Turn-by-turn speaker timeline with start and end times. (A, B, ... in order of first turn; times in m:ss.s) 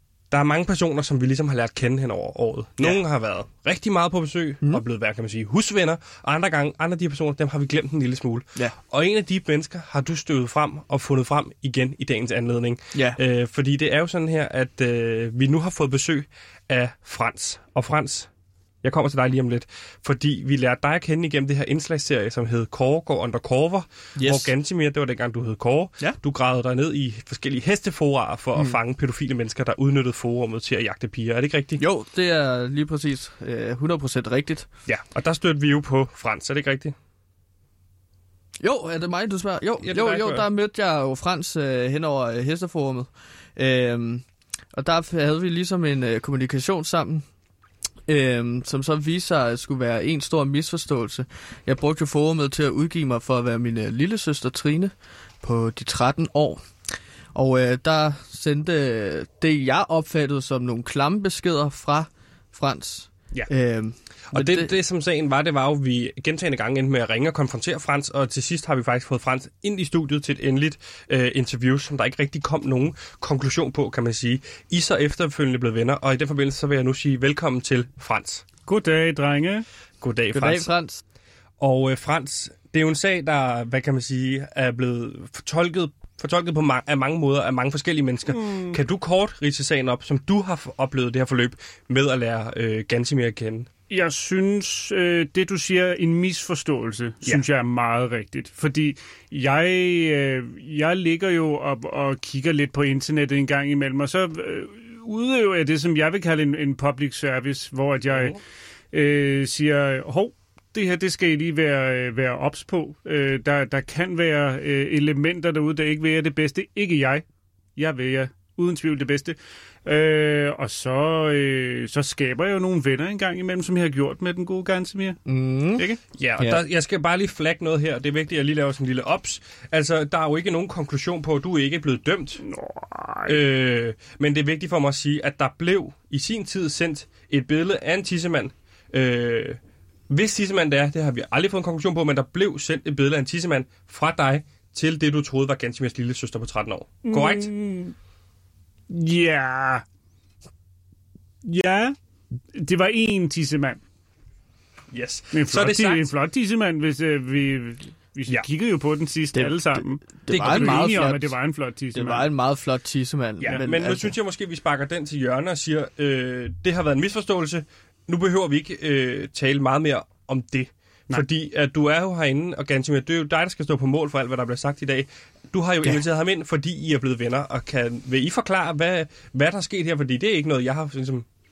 0:00.3-0:18.3 A
0:18.8-0:31.8 A
0:24.2-0:24.5 B
0:31.8-0:34.7 B
0:34.9-0:36.9 A
0:38.6-0:47.2 B
0:39.8-0:40.4 A
0:48.1-0:54.9 B
0:55.4-0:56.6 B
0:57.3-1:04.7 B
1:04.3-1:18.4 A
1:18.6-1:19.6 C
1:20.0-1:20.7 A
1:20.3-1:21.0 B
1:21.6-1:33.7 A
1:28.3-1:28.8 C
1:33.9-1:48.4 C
1:48.1-1:48.4 A
1:48.9-1:57.2 C
1:57.8-2:05.2 C
2:05.2-2:05.8 B
2:06.2-2:12.4 A
2:12.4-2:13.4 C
2:13.2-2:19.6 A
2:20.1-2:27.5 A
2:27.0-2:27.9 C
2:28.9-2:29.8 C
2:31.4-2:32.0 C
2:32.5-2:33.8 C
2:34.9-2:36.1 A
2:35.3-2:42.3 C
2:39.3-2:41.4 B
2:40.3-2:41.0 A
2:41.9-2:44.1 B
2:43.4-3:01.2 A